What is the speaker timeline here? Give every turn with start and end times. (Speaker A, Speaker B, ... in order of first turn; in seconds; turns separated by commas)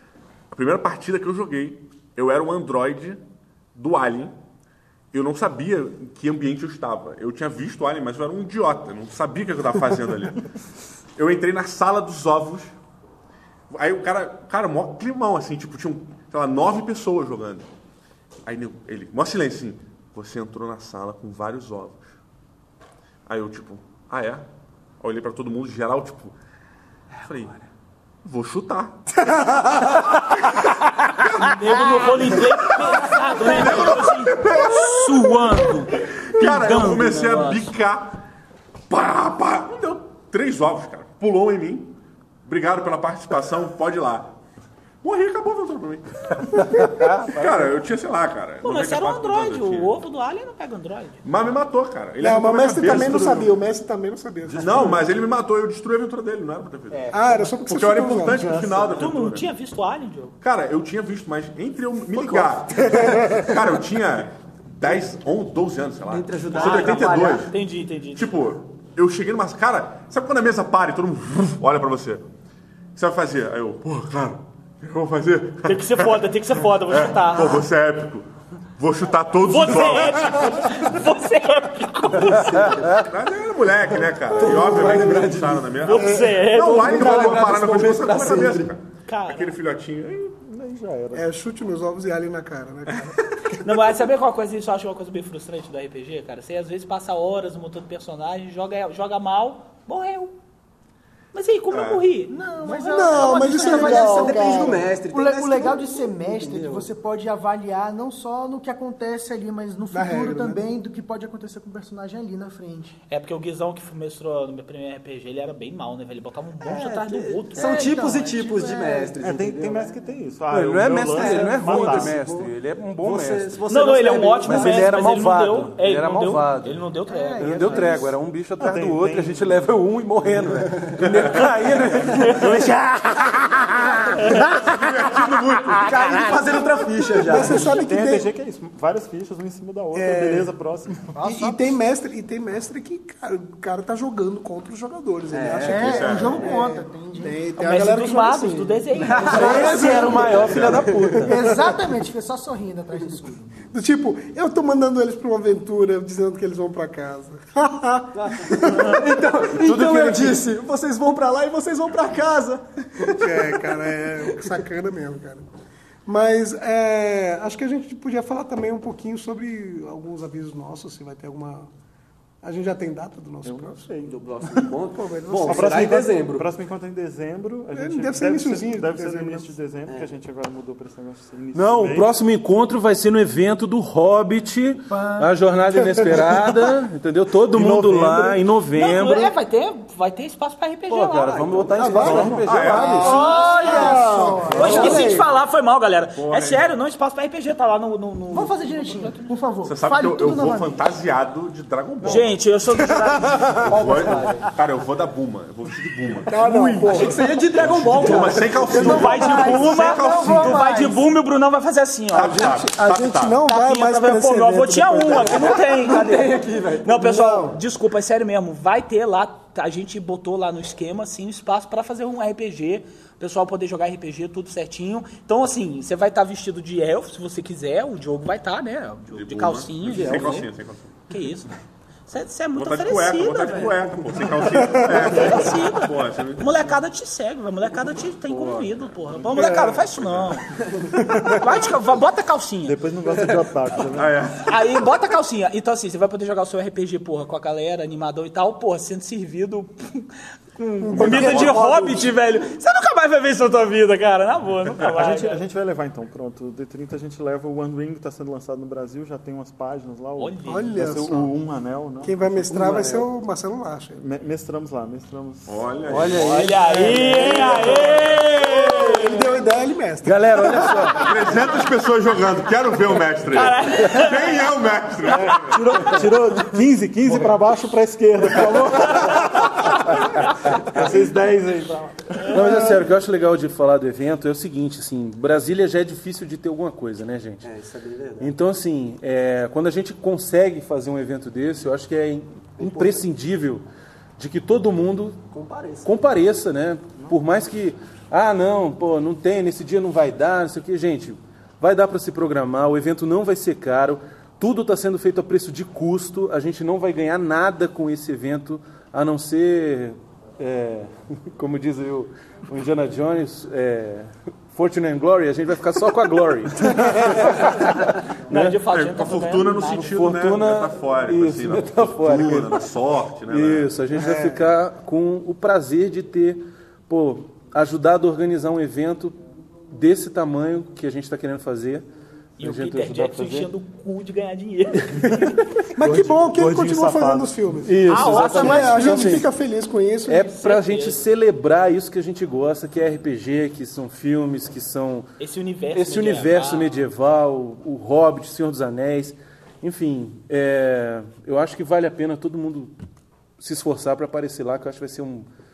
Speaker A: 0.5-3.2, Speaker A: 3.7-4.3, Speaker A: 5.1-10.4, Speaker A: 11.2-12.7, Speaker A: 13.7-17.7, Speaker A: 18.4-22.0, Speaker A: 23.3-24.5, Speaker A: 25.0-26.4, Speaker B: 27.2-27.6, Speaker A: 27.2-27.6, Speaker A: 28.2-38.2, Speaker C: 31.4-37.7, Speaker A: 38.9-44.4, Speaker A: 45.0-50.0, Speaker D: 46.8-47.4, Speaker C: 48.6-51.2, Speaker A: 51.2-53.6, Speaker E: 52.2-55.0, Speaker A: 54.5-59.5, Speaker E: 57.1-58.9, Speaker B: 58.7-59.1, Speaker C: 59.0-60.4, Speaker A: 60.4-67.6, Speaker B: 62.9-63.3, Speaker B: 66.1-67.5, Speaker C: 66.5-68.3, Speaker A: 68.1-72.2, Speaker A: 73.0-76.3, Speaker C: 75.7-77.7, Speaker A: 76.9-80.9, Speaker C: 79.5-82.7, Speaker B: 82.1-83.1, Speaker A: 82.9-90.4, Speaker B: 84.3-88.8, Speaker C: 85.8-87.4, Speaker E: 86.1-86.3, Speaker C: 89.1-89.6, Speaker F: 90.4-91.3, Speaker E: 91.1-93.6, Speaker C: 93.6-100.3, Speaker C: 101.3-102.3, Speaker A: 101.7-102.2, Speaker G: 102.3-113.0, Speaker E: 102.6-104.9, Speaker B: 103.2-106.9, Speaker E: 109.9-110.7, Speaker C: 113.1-117.9, Speaker B: 116.6-119.9, Speaker G: 117.6-119.2, Speaker F: 119.2-122.2, Speaker D: 120.5-123.6, Speaker B: 121.1-125.2, Speaker C: 123.7-128.0, Speaker D: 124.4-126.8, Speaker G: 127.0-128.2, Speaker D: 127.4-133.4, Speaker F: 128.6-129.7, Speaker B: 130.9-132.5, Speaker A: 131.0-131.5, Speaker C: 132.1-132.5, Speaker A: 133.2-136.3, Speaker B: 135.1-137.8, Speaker E: 137.2-138.3, Speaker F: 137.3-141.1, Speaker E: 139.9-140.5, Speaker G: 141.1-141.8, Speaker E: 141.2-152.0, Speaker B: 145.3-146.6, Speaker G: 145.6-147.4, Speaker A: 145.8-146.6, Speaker C: 147.6-150.5, Speaker B: 149.0-150.6, Speaker G: 149.3-150.4, Speaker D: 149.3-151.5, Speaker A: 150.3-150.9, Speaker G: 151.1-153.6, Speaker E: 153.7-159.2, Speaker B: 158.2-164.4, Speaker D: 159.6-160.4, Speaker E: 163.0-165.5, Speaker E: 166.1-171.7, Speaker E: 172.4-173.8, Speaker F: 173.4-174.7, Speaker B: 174.1-176.5, Speaker E: 174.9-175.9, Speaker F: 175.4-182.1, Speaker E: 177.7-179.5, Speaker D: 181.5-189.3, Speaker G: 184.9-185.4, Speaker E: 185.9-186.5, Speaker F: 187.5-188.4, Speaker C: 188.7-191.5, Speaker D: 190.9-193.2, Speaker B: 191.2-192.0, Speaker E: 191.8-195.3, Speaker F: 192.0-192.5, Speaker A: 192.4-193.0, Speaker C: 192.9-194.0, Speaker G: 192.9-195.3, Speaker C: 194.6-199.3, Speaker A: 196.1-196.7, Speaker G: 198.3-200.9, Speaker A: 199.7-202.4, Speaker C: 202.0-203.3, Speaker A: 203.0-210.7, Speaker G: 203.7-204.5, Speaker B: 203.9-204.4, Speaker E: 206.3-207.4, Speaker B: 206.9-209.0, Speaker G: 208.7-211.1, Speaker C: 208.7-212.5, Speaker A: 212.1-213.4, Speaker E: 212.2-215.9, Speaker C: 213.5-230.5, Speaker B: 215.3-217.5, Speaker A: 229.1-231.0, Speaker B: 229.9-230.4, Speaker C: 231.1-231.5, Speaker C: 232.1-233.7, Speaker A: 232.6-236.5, Speaker B: 233.5-233.8, Speaker C: 235.0-240.5, Speaker F: 239.2-239.9, Speaker A: 239.3-240.4, Speaker F: 241.0-241.4, Speaker C: 241.3-242.8, Speaker F: 242.7-244.2, Speaker A: 243.9-244.6, Speaker C: 244.4-250.1, Speaker E: 250.8-251.6, Speaker C: 250.9-255.4, Speaker A: 250.9-251.7, Speaker F: 254.8-263.1, Speaker C: 260.2-260.8, Speaker E: 260.5-261.3, Speaker E: 262.0-264.0, Speaker F: 263.9-266.1, Speaker A: 265.5-266.4, Speaker D: 265.9-267.7, Speaker C: 266.3-269.2, Speaker E: 266.7-271.1, Speaker D: 270.0-271.3, Speaker A: 270.9-275.9, Speaker C: 273.3-274.5, Speaker F: 275.2-282.9, Speaker D: 282.3-287.4, Speaker B: 287.4-288.3, Speaker D: 288.2-293.6, Speaker B: 292.6-293.1, Speaker D: 294.2-295.2, Speaker B: 295.3-295.9, Speaker D: 295.8-318.6, Speaker F: 297.0-297.2, Speaker C: 318.3-320.0, Speaker A: 318.7-323.9, Speaker D: 319.8-322.7, Speaker D: 323.3-329.2, Speaker E: 323.9-324.6, Speaker D: 329.7-331.9, Speaker C: 332.4-335.3, Speaker D: 332.4-333.5, Speaker E: 335.8-340.3, Speaker F: 335.8-337.7, Speaker D: 337.6-339.3, Speaker C: 337.9-339.2, Speaker D: 340.1-345.1, Speaker C: 340.1-341.1, Speaker C: 345.2-346.8, Speaker D: 345.7-352.7, Speaker D: 353.4-355.3